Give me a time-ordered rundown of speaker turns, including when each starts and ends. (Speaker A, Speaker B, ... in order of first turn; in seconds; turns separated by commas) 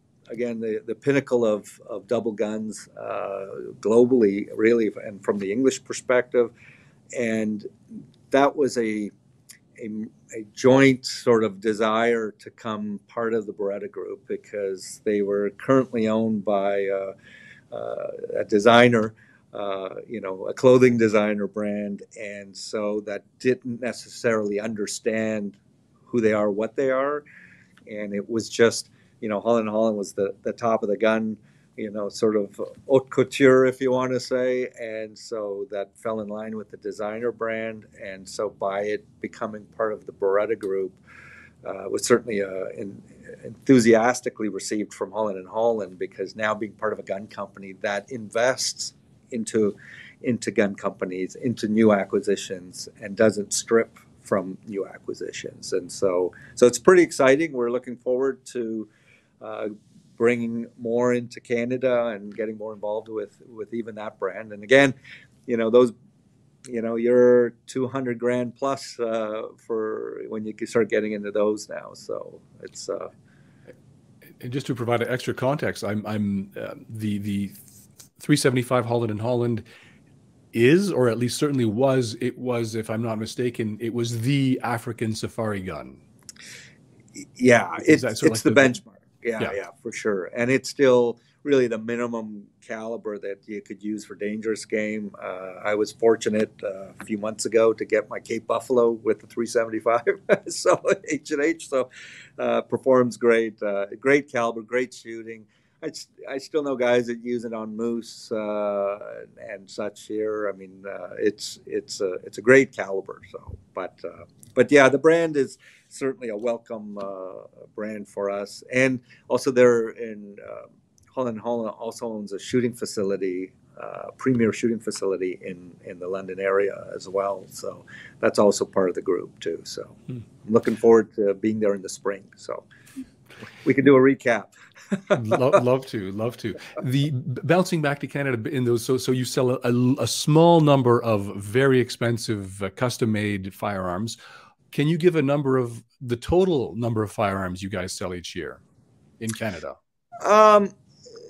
Speaker A: 0.3-6.5, Speaker A: 7.1-7.7, Speaker A: 8.3-9.1, Speaker A: 9.8-17.1, Speaker A: 17.7-27.2, Speaker A: 27.9-41.0, Speaker A: 41.6-58.9, Speaker A: 59.4-65.0, Speaker A: 65.5-65.9, Speaker A: 66.7-73.1, Speaker B: 74.4-77.6, Speaker B: 78.2-79.6, Speaker B: 80.5-86.0, Speaker A: 87.2-132.7, Speaker B: 87.8-88.8, Speaker A: 133.6-135.6, Speaker B: 135.1-144.2, Speaker B: 144.7-148.6, Speaker B: 149.2-149.8, Speaker A: 150.2-150.7